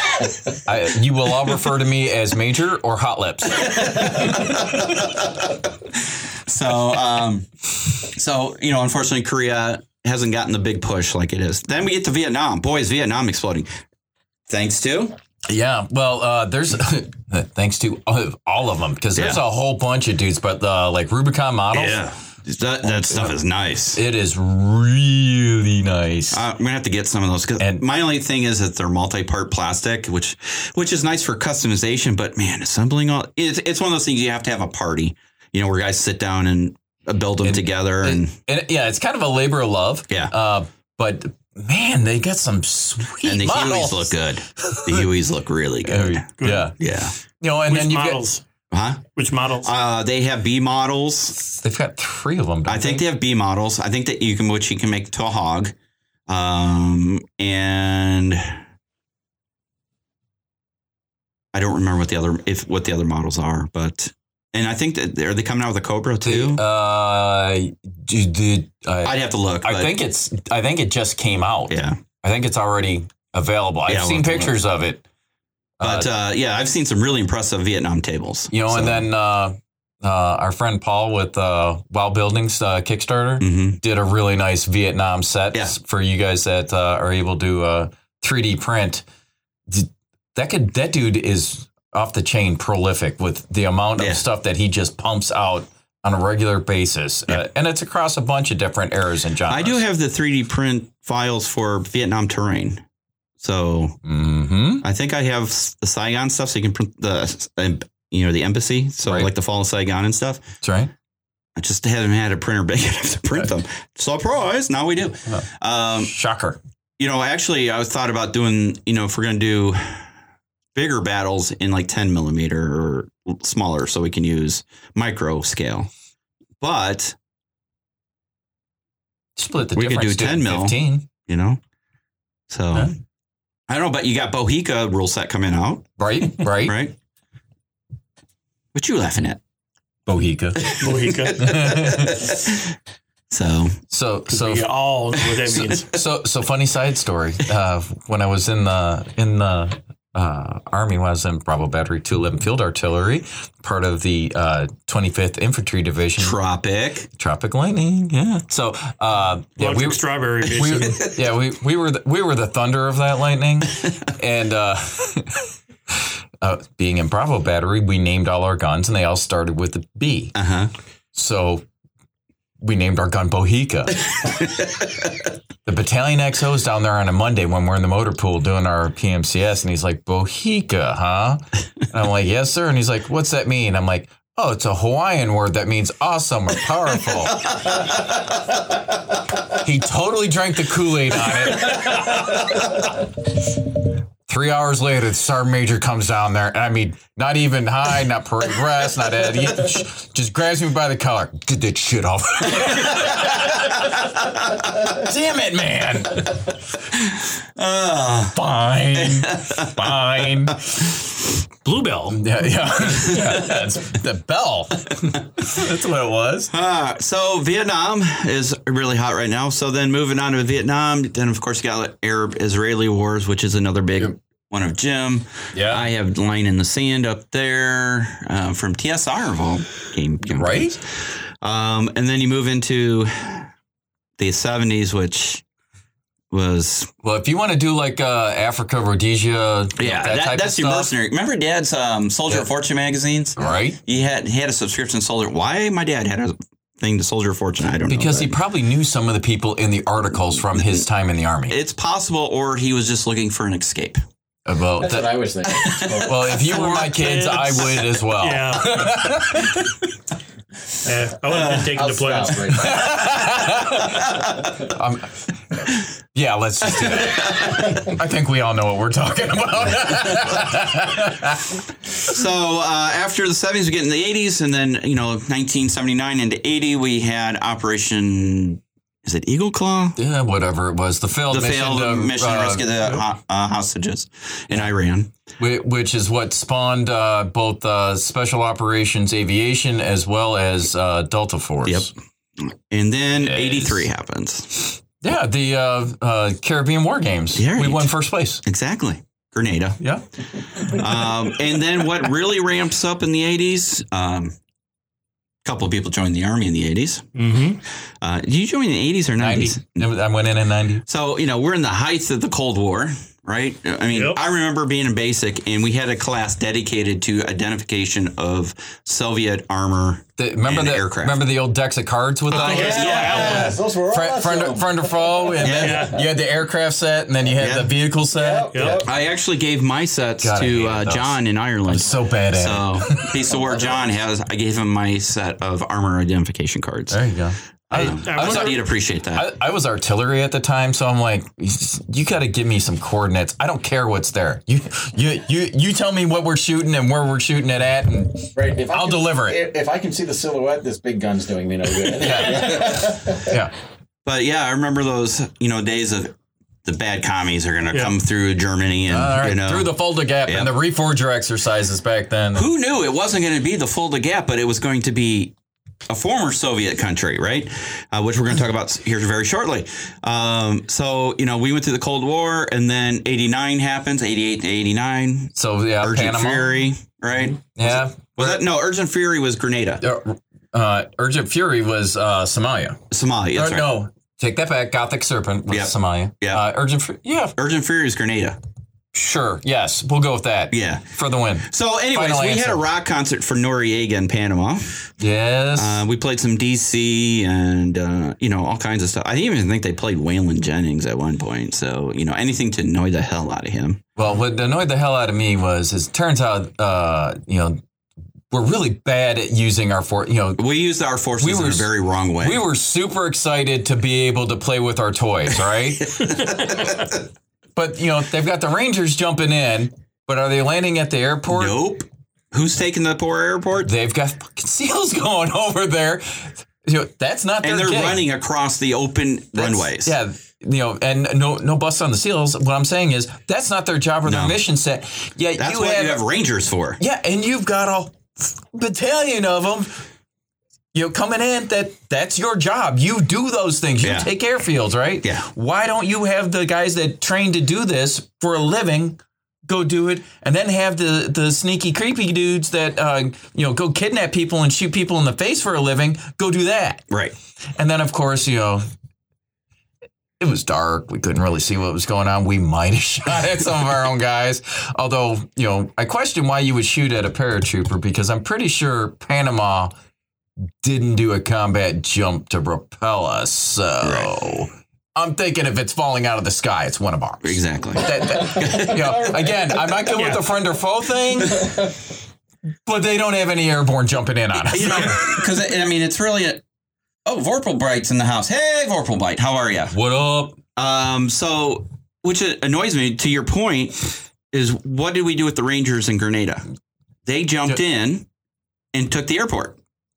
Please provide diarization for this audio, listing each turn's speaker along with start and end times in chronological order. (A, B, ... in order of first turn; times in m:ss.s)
0:00.6-0:05.0 A
0:03.9-0:05.2 B
0:06.5-0:13.7 B
0:14.5-0:15.1 B
0:15.5-0:22.0 A
0:19.1-0:19.4 B
0:21.7-0:24.0 B
0:22.8-0:23.4 A
0:23.9-0:26.4 A
0:26.3-0:38.4 B
0:27.6-0:27.8 A
0:37.4-0:45.1 A
0:43.2-0:46.3 B
0:45.8-0:48.2 A
0:46.4-0:46.8 C
0:46.8-0:47.1 B
0:47.7-0:48.4 C
0:48.7-0:49.0 B
0:49.1-0:49.7 C
0:49.6-0:51.4 B
0:51.6-0:53.1 A
0:52.7-0:55.7 B
0:56.3-0:58.6 B
1:01.5-1:06.6 B
1:06.2-1:15.0 A
1:09.0-1:10.0 B
1:11.7-1:12.0 B
1:13.9-1:14.6 B
1:15.8-1:16.1 A
1:15.8-1:19.1 B
1:18.5-1:29.0 A
1:23.4-1:23.8 B
1:29.7-1:39.8 A
1:34.0-1:34.2 B
1:39.5-1:42.8 B
1:43.4-1:44.0 B
1:44.0-1:44.8 A
1:44.8-1:50.4 B
1:49.0-1:49.3 A
1:50.6-1:50.9 A
1:51.6-1:56.1 B
1:56.0-1:56.6 A
1:57.0-2:00.0 B
2:00.8-2:05.9 B
2:06.6-2:07.2 B
2:09.4-2:11.1 A
2:09.7-2:11.6 B
2:12.5-2:12.9 B
2:13.7-2:16.9 B
2:16.0-2:16.8 A
2:18.7-2:19.4 B
2:20.1-2:20.8 A
2:20.8-2:21.5 C
2:21.4-2:22.4 A
2:21.4-2:22.7 B
2:23.3-2:23.8 B
2:23.9-2:24.7 A
2:24.3-2:25.9 C
2:25.8-2:36.4 A
2:36.2-2:37.1 B
2:37.2-2:50.4 A
2:39.6-2:41.2 C
2:50.4-2:50.7 B
2:51.1-2:51.6 A
2:52.6-2:54.0 A
2:55.6-3:07.5 A
3:09.6-3:12.6 A
3:14.3-3:26.6 A
3:27.6-3:28.4 B
3:28.3-3:31.0 A
3:29.0-3:29.8 B
3:31.6-3:32.2 C
3:32.1-3:36.5 A
3:36.5-3:50.9 B
3:45.5-3:45.8 A
3:50.2-3:50.8 A
3:51.4-3:53.5 B
3:54.2-3:55.4 B
3:56.3-3:56.9 B
3:57.0-4:00.9 A
3:59.8-4:08.4 B
4:03.4-4:03.8 A
4:07.9-4:11.6 A
4:11.5-4:14.0 B
4:14.4-4:15.3 A
4:14.8-4:16.6 D
4:15.9-4:19.8 A
4:16.4-4:19.1 C
4:20.8-4:22.6 C
4:21.3-4:21.6 B
4:21.7-4:23.1 D
4:22.5-4:31.6 A
4:26.8-4:27.7 B
4:32.0-4:40.0 B
4:40.0-4:42.7 A
4:41.3-4:45.1 B
4:45.4-4:51.9 A
4:51.6-4:54.8 B
4:53.2-4:53.9 A
4:55.0-4:58.4 A
4:57.4-4:59.8 B
5:00.6-5:04.4 B
5:00.6-5:01.0 A
5:05.4-5:07.0 B
5:07.2-5:07.6 C
5:08.0-5:09.9 B
5:09.2-5:10.8 A
5:10.9-5:21.2 B
5:13.9-5:14.2 C
5:20.2-5:28.8 A
5:22.3-5:23.6 C
5:22.3-5:23.5 B
5:22.4-5:25.7 D
5:25.4-5:25.9 B
5:25.5-5:26.0 C
5:27.4-5:27.7 B
5:28.1-5:28.9 D
5:28.5-5:28.8 C
5:28.8-5:37.0 B
5:30.2-5:33.2 A
5:33.3-5:33.8 D
5:36.9-5:38.6 A
5:37.7-5:39.3 B
5:38.0-5:38.6 C
5:39.1-5:49.4 A
5:48.4-5:53.3 D
5:51.9-5:53.5 A
5:54.1-5:59.7 B
5:58.9-6:02.5 A
6:00.2-6:00.5 B
6:02.3-6:05.3 B
6:05.9-6:19.8 B
6:15.4-6:16.7 A
6:17.6-6:18.4 A
6:19.8-6:22.8 A
6:22.9-6:23.7 B
6:23.3-6:27.4 A
6:25.5-6:26.4 B
6:27.4-6:28.4 B
6:28.9-6:32.6 A
6:30.5-6:30.9 B
6:31.4-6:34.7 B
6:35.0-6:35.8 A
6:35.6-6:43.8 B
6:44.0-6:47.6 A
6:48.3-6:50.4 A
6:50.4-6:52.4 B
6:51.2-6:56.4 A
6:57.6-7:01.6 A
7:01.3-7:03.7 B
7:03.6-7:08.1 A
7:07.4-7:10.0 B
7:09.4-7:16.0 A
7:14.1-7:14.4 B
7:15.4-7:16.8 B
7:16.8-7:19.8 A
7:20.7-7:36.8 A
7:23.8-7:24.1 B
7:37.6-7:38.6 A
7:40.2-7:49.7 A
7:50.6-8:01.8 A
7:53.8-7:54.1 B
7:57.2-7:58.9 B
7:59.9-8:00.2 C
8:02.6-8:05.2 A
8:04.5-8:06.4 B
8:07.1-8:09.8 B
8:09.7-8:10.4 A
8:10.6-8:16.4 B
8:17.1-8:18.1 B
8:18.7-8:19.6 B